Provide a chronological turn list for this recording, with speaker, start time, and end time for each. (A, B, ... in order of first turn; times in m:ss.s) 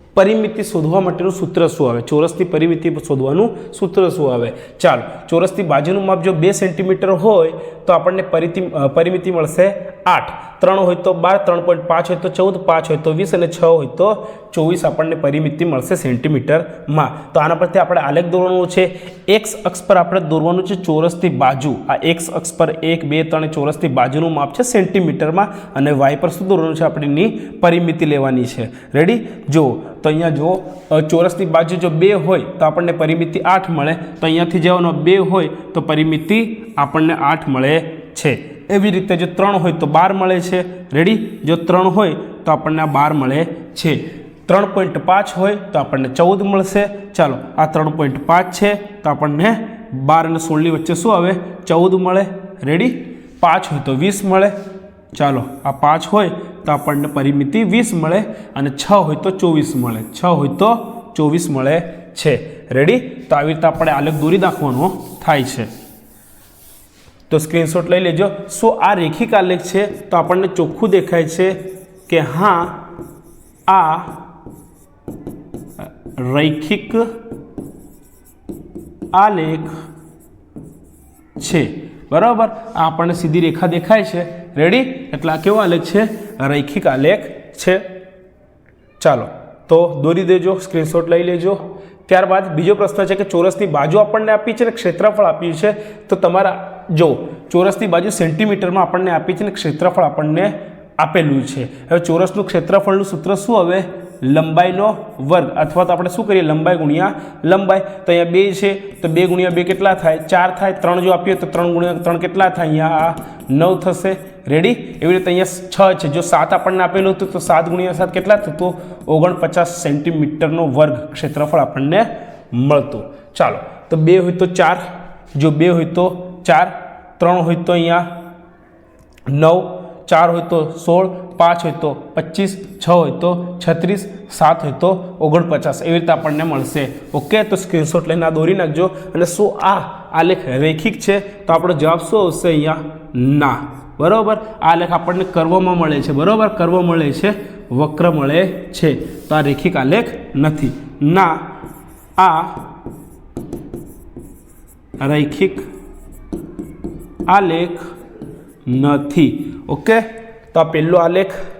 0:00.1-0:54.5 A
0:55.1-1:05.7 A
1:07.3-1:12.8 A
1:13.7-1:14.2 A
1:15.8-1:17.1 A
1:19.1-1:19.7 A
1:21.4-1:27.8 A
1:29.0-2:04.8 A
2:05.3-2:08.1 A
2:09.3-2:31.4 A
2:32.2-2:32.6 A
2:35.0-2:35.6 A
2:37.3-2:37.9 A
2:38.7-2:41.4 A